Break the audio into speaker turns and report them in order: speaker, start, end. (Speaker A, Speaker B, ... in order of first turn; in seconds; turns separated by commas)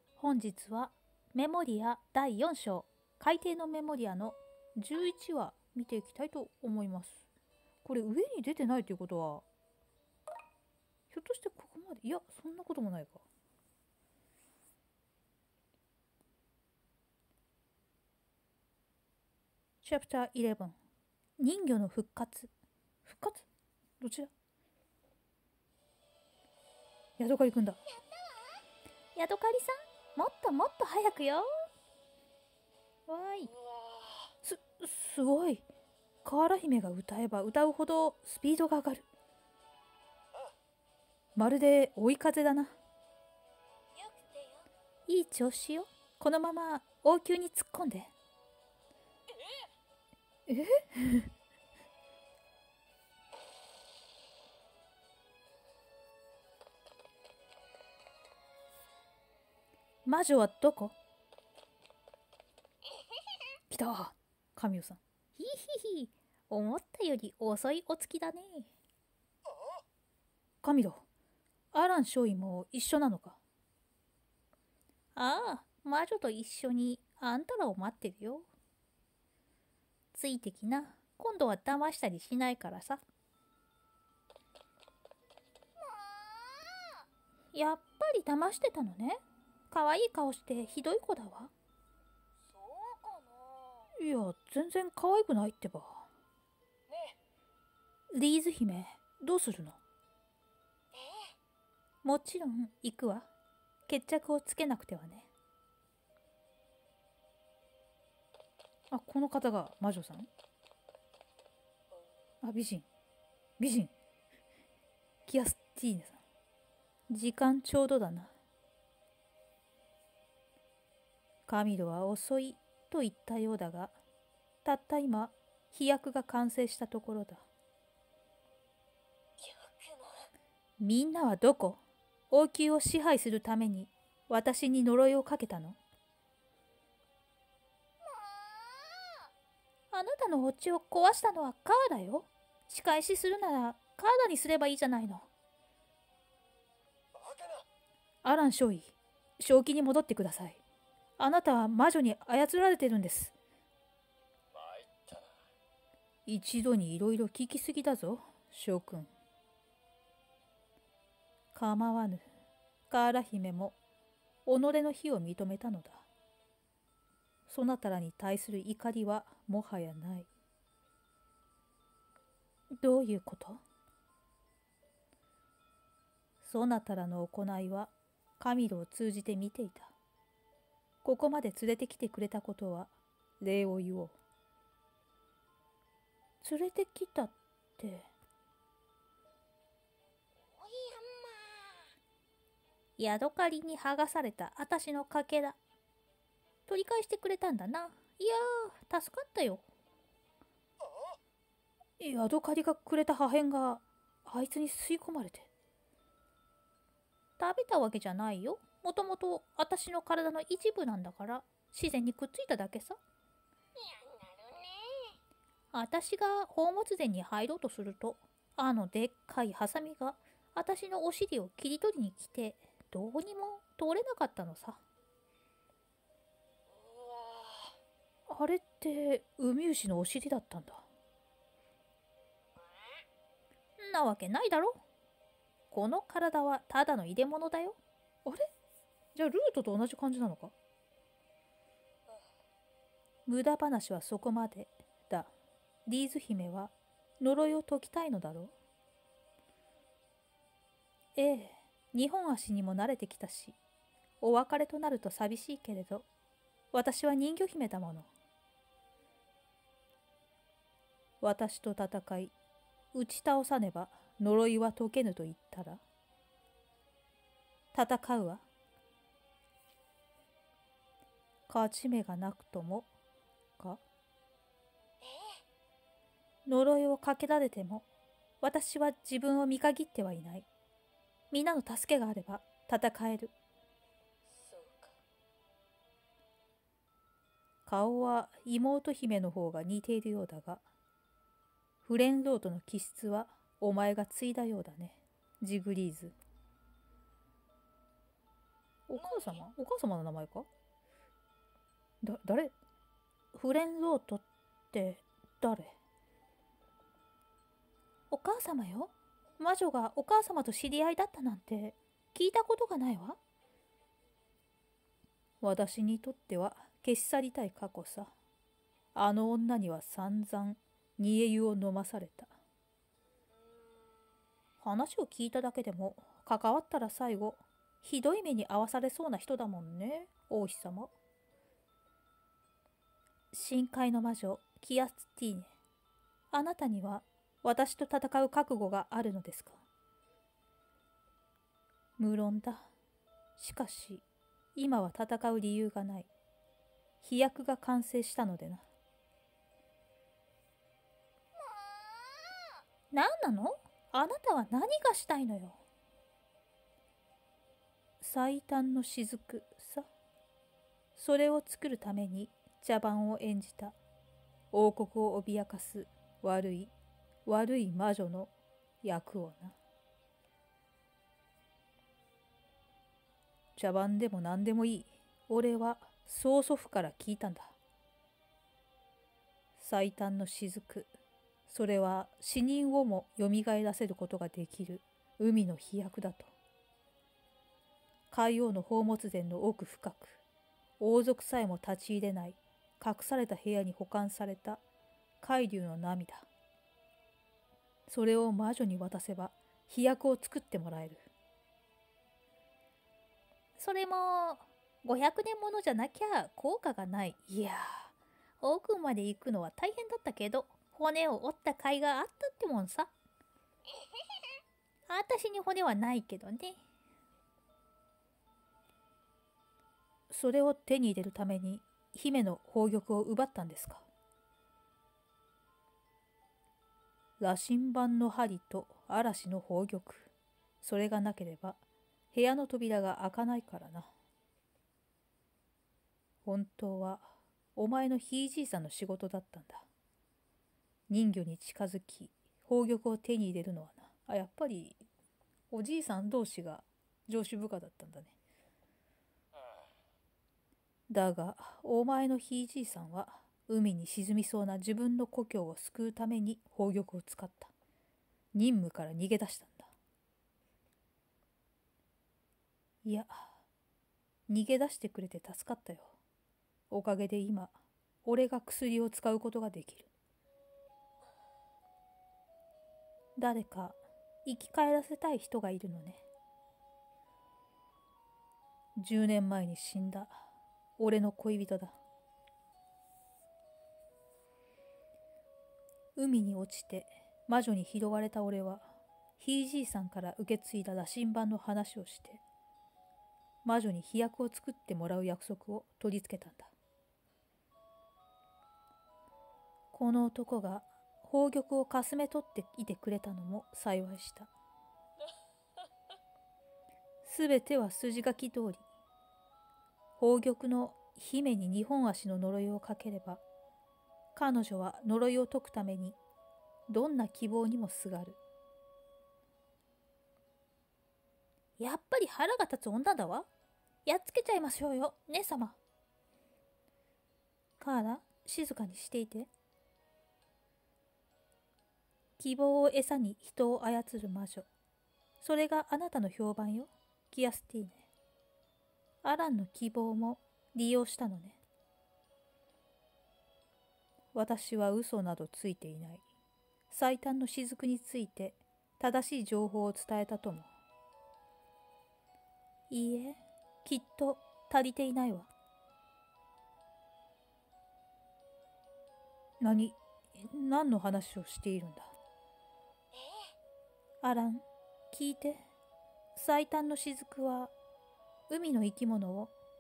Speaker A: 0.2-7.2, Speaker A: 7.8-9.4, Speaker A: 11.1-13.2, Speaker A: 19.8-20.8, Speaker A: 21.4-22.5, Speaker A: 23.0-23.4, Speaker A: 24.0-24.3, Speaker A: 27.2-27.8, Speaker B: 27.9-28.6, Speaker A: 29.1-31.5, Speaker A: 33.1-33.5, Speaker A: 34.4-35.6, Speaker A: 36.2-39.0, Speaker A: 41.4-42.7, Speaker B: 43.9-44.7, Speaker A: 45.1-48.1, Speaker A: 50.5-51.3, Speaker A: 60.0-60.9, Speaker A: 63.7-68.7, Speaker A: 70.6-71.0, Speaker A: 71.7-73.4, Speaker A: 75.1-78.5, Speaker A: 80.1-83.0, Speaker B: 85.8-87.0, Speaker A: 87.5-91.5, Speaker B: 92.5-93.9, Speaker A: 94.0-96.0, Speaker B: 96.9-97.2, Speaker A: 98.1-99.8, Speaker B: 100.9-101.3, Speaker A: 102.0-103.3, Speaker A: 103.9-105.3, Speaker A: 108.9-110.3, Speaker A: 112.4-112.9, Speaker A: 113.6-113.9, Speaker A: 115.2-116.2, Speaker A: 117.1-118.3, Speaker A: 121.5-124.0, Speaker A: 124.6-127.4, Speaker B: 129.4-130.3, Speaker A: 130.8-135.8, Speaker B: 138.0-139.2, Speaker A: 139.9-145.3, Speaker A: 148.2-150.6, Speaker A: 151.2-153.3, Speaker A: 156.2-159.1, Speaker A: 161.5-162.2, Speaker A: 162.9-163.8, Speaker A: 164.4-166.1, Speaker A: 167.5-170.3, Speaker A: 172.7-173.6, Speaker A: 176.4-179.9, Speaker A: 181.0-184.2, Speaker A: 186.4-188.1, Speaker B: 190.4-191.8, Speaker A: 193.0-195.6, Speaker A: 196.7-199.7, Speaker A: 202.0-205.5, Speaker A: 207.4-213.0, Speaker B: 213.8-215.1, Speaker A: 215.7-224.8, Speaker B: 226.7-227.8, Speaker A: 228.3-230.8, Speaker A: 233.8-234.8, Speaker A: 235.7-238.5, Speaker A: 239.1-240.5, Speaker A: 243.2-245.3, Speaker A: 245.8-248.5, Speaker A: 251.2-253.6, Speaker A: 254.2-256.1, Speaker A: 256.7-258.1, Speaker A: 261.2-262.3, Speaker A: 262.9-265.8, Speaker A: 267.7-268.4, Speaker A: 271.5-272.9, Speaker B: 275.0-275.4, Speaker A: 276.4-277.9, Speaker A: 278.4-280.5, Speaker A: 281.3-283.3, Speaker B: 284.3-285.0, Speaker A: 287.6-290.6, Speaker A: 291.8-296.1, Speaker A: 298.9-300.5, Speaker B: 299.0-299.4, Speaker A: 302.0-302.5, Speaker A: 303.3-305.7, Speaker A: 308.1-313.2, Speaker A: 315.4-318.1, Speaker A: 318.9-322.3, Speaker A: 324.6-330.9, Speaker A: 333.3-335.5, Speaker A: 336.3-339.6, Speaker A: 342.0-342.7, Speaker A: 343.4-344.0, Speaker A: 344.5-346.1, Speaker A: 347.0-348.6, Speaker B: 351.4-352.3, Speaker A: 352.9-355.6, Speaker A: 358.0-359.9, Speaker A: 360.9-363.8, Speaker A: 364.5-366.7, Speaker A: 367.2-368.3, Speaker A: 368.8-369.6, Speaker A: 373.6-377.5, Speaker A: 379.6-380.9, Speaker A: 381.5-386.3, Speaker A: 388.1-390.2, Speaker A: 390.8-394.6, Speaker A: 395.2-396.3, Speaker A: 397.9-401.1, Speaker A: 403.6-412.9, Speaker A: 414.9-416.6, Speaker A: 420.1-423.9, Speaker A: 427.2-430.1, Speaker A: 430.6-431.6, Speaker A: 432.1-433.9, Speaker A: 436.2-439.7, Speaker A: 440.9-444.8, Speaker A: 445.5-448.1, Speaker A: 450.9-457.5, Speaker A: 458.3-459.7, Speaker A: 462.8-463.4, Speaker A: 464.3-465.9, Speaker A: 466.7-469.9, Speaker A: 473.1-476.0, Speaker A: 478.8-480.2, Speaker A: 480.8-481.8, Speaker A: 485.9-492.2, Speaker A: 493.4-496.5, Speaker A: 499.7-504.3, Speaker A: 507.0-508.6, Speaker A: 510.0-513.2, Speaker A: 514.1-516.0, Speaker A: 516.7-518.2, Speaker A: 521.6-523.3, Speaker A: 523.9-525.6, Speaker A: 527.6-529.3, Speaker A: 532.2-534.5, Speaker A: 535.2-537.9, Speaker A: 539.0-541.4, Speaker A: 544.1-546.0, Speaker A: 546.7-550.5, Speaker A: 552.7-555.3, Speaker A: 559.4-561.9, Speaker B: 562.9-563.3, Speaker A: 564.0-565.4, Speaker A: 566.1-567.5, Speaker A: 568.3-569.3